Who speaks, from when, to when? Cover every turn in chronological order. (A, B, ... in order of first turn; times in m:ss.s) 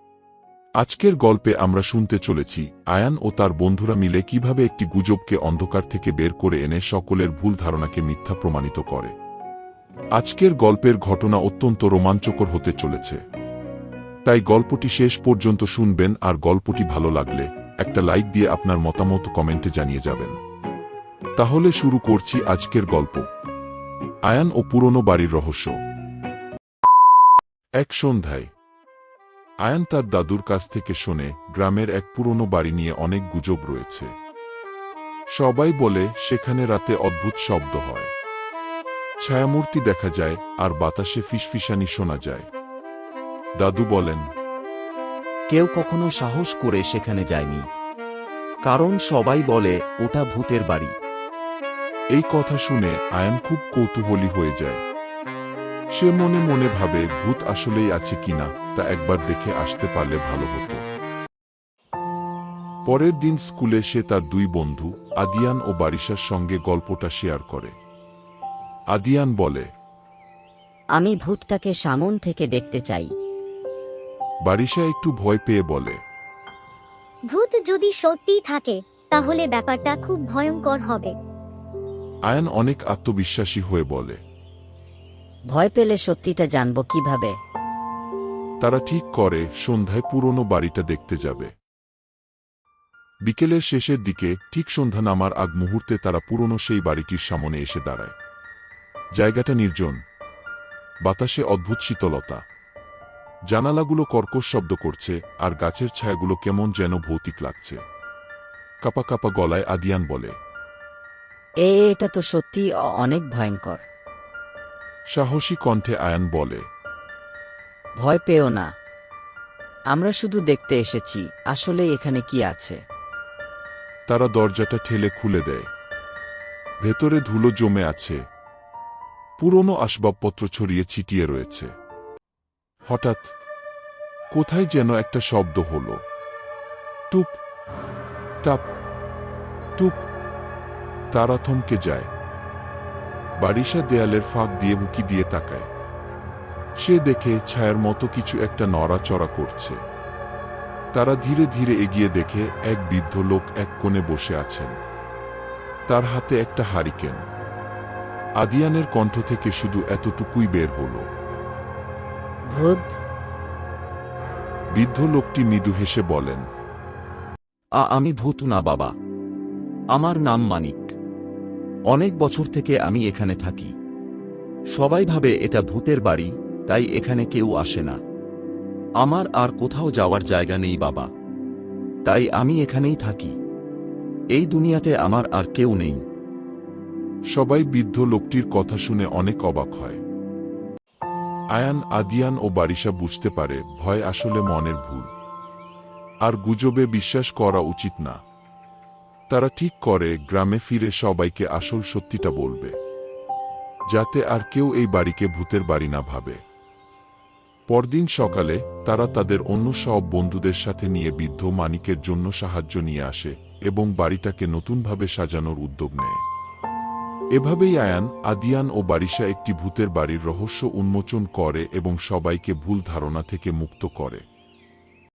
0:00.8-0:09.1 A
0:10.2-0:13.2 A
0:14.3-0:20.4 A
0:21.4-0:23.3 A
0:24.3-0:25.8 A
0:27.8-0:28.5 A
0:29.6-0:34.1 A
0:35.4-0:38.1 A
0:39.2-0:42.5 A
0:43.6-0:44.2 A
0:45.5-0:47.6 B
0:48.7-0:50.9 B
0:52.1-0:54.8 A
0:56.0-1:00.8 A
1:02.9-1:07.7 A
1:08.9-1:09.7 A
1:11.0-1:13.1 C
1:14.5-1:16.0 A
1:17.3-1:21.2 D
1:22.3-1:24.2 A
1:25.5-1:27.4 C
1:28.6-1:31.5 A
1:33.2-1:38.1 A
1:39.2-1:40.0 A
1:41.0-1:42.4 A
1:43.5-1:47.8 A
1:48.8-1:50.3 A
1:51.6-1:53.8 C
1:55.1-1:56.6 A
1:58.0-1:58.7 C
1:59.9-2:02.8 C
2:04.1-2:05.7 A
2:06.8-2:08.2 A
2:09.4-2:11.7 A
2:12.9-2:13.3 A
2:14.3-2:16.0 A
2:17.1-2:17.4 A
2:19.8-2:20.0 A
2:21.1-2:22.1 A
2:23.4-2:25.7 A
2:26.8-2:29.8 A
2:30.9-2:34.7 A
2:35.9-2:37.2 A
2:38.4-2:41.0 A
2:42.5-2:43.0 C
2:44.7-2:46.4 A
2:47.8-2:48.9 B
2:49.9-2:50.9 B
2:51.9-2:53.7 B
2:54.8-2:58.0 B
2:59.0-3:01.1 B
3:02.0-3:03.4 B
3:04.3-3:06.0 B
3:07.3-3:10.0 A
3:11.6-3:15.1 A
3:16.2-3:18.2 A
3:19.3-3:22.7 A
3:23.9-3:26.4 A
3:27.7-3:36.2 A
3:37.4-3:44.2 A